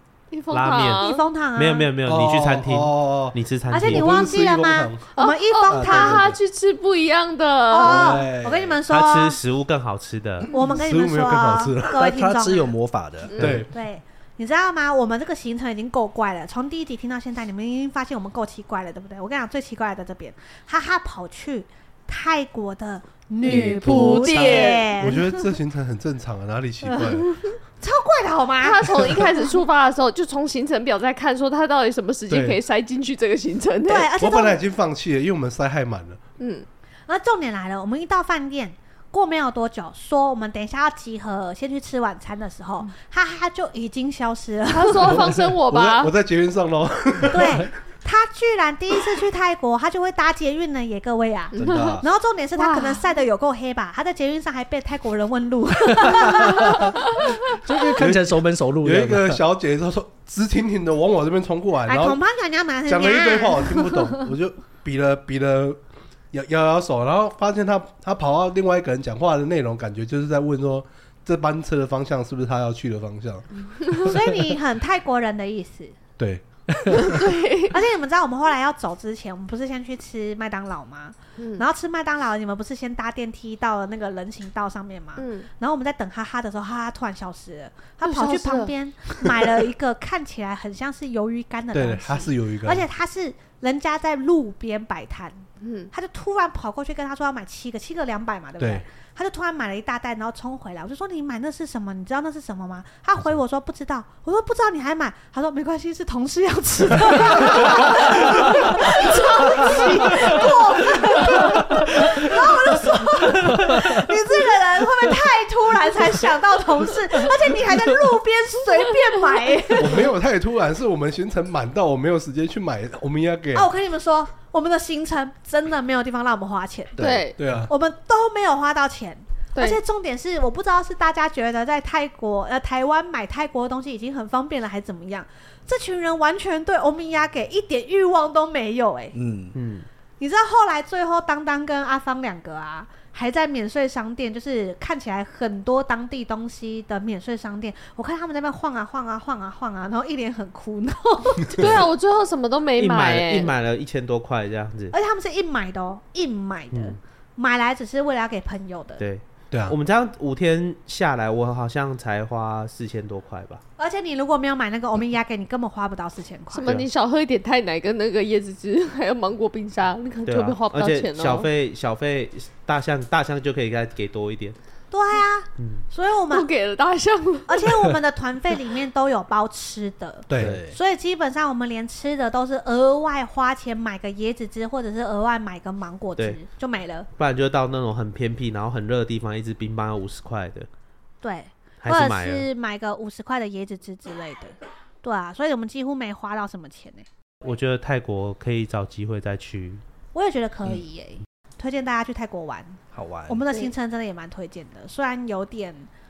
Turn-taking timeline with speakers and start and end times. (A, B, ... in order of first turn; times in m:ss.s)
0:00.3-0:01.2 A
0:00.5-0:04.1 B
0:00.8-0:01.9 C
0:02.0-0:05.0 D
0:03.7-0:06.3 C
0:05.2-0:08.2 A
0:05.7-0:06.3 E
0:07.7-0:09.4 C
0:07.8-0:08.8 E
0:08.9-0:10.5 B
0:10.5-0:12.7 C
0:10.7-0:12.0 D
0:11.9-0:13.6 E
0:13.3-0:13.6 A
0:13.4-0:13.7 D
0:13.4-0:25.5 C
0:23.4-0:25.0 A
0:23.5-0:24.1 E
0:25.0-0:27.3 D
0:26.8-0:29.5 C
0:28.6-0:34.1 A
0:32.3-0:32.6 D
0:33.8-0:34.6 C
0:34.2-0:36.2 D
0:36.4-0:36.6 A
0:37.1-0:45.2 C
0:44.7-0:46.1 A
0:45.1-0:47.6 D
0:47.3-0:56.9 C
0:51.5-0:52.0 E
0:51.6-0:52.0 A
0:52.6-0:53.1 A
0:56.0-0:56.8 E
0:57.5-0:59.4 E
0:58.0-1:02.2 D
1:01.9-1:04.2 C
1:02.8-1:05.8 D
1:06.3-1:14.3 D
1:14.0-1:16.0 C
1:16.2-1:17.2 D
1:16.9-1:17.8 A
1:17.7-2:00.1 C
1:21.4-1:21.6 A
1:25.2-1:25.5 A
1:28.0-1:28.7 A
1:31.7-1:32.8 D
1:35.6-1:35.9 A
1:38.6-1:38.8 D
1:59.8-2:03.7 D
2:03.5-2:19.2 C
2:07.0-2:07.4 A
2:07.0-2:07.7 D
2:09.5-2:09.8 A
2:19.1-2:19.6 E
2:19.5-2:19.9 B
2:20.2-2:31.7 C
2:31.5-2:33.5 A
2:32.8-2:34.9 B
2:34.9-2:39.0 C
2:36.7-2:37.0 B
2:39.0-2:43.6 B
2:39.5-2:39.8 D
2:43.8-2:46.7 C
2:46.5-2:51.5 A
2:50.2-2:54.6 B
2:54.9-2:56.5 C
2:55.6-2:55.8 B
2:56.3-2:57.6 A
2:57.5-3:07.1 C
3:00.3-3:00.6 D
3:00.4-3:00.8 E
3:07.2-3:10.7 B
3:11.2-3:17.0 C
3:11.8-3:12.5 B
3:17.4-3:19.8 B
3:20.1-3:25.9 C
3:22.9-3:23.5 E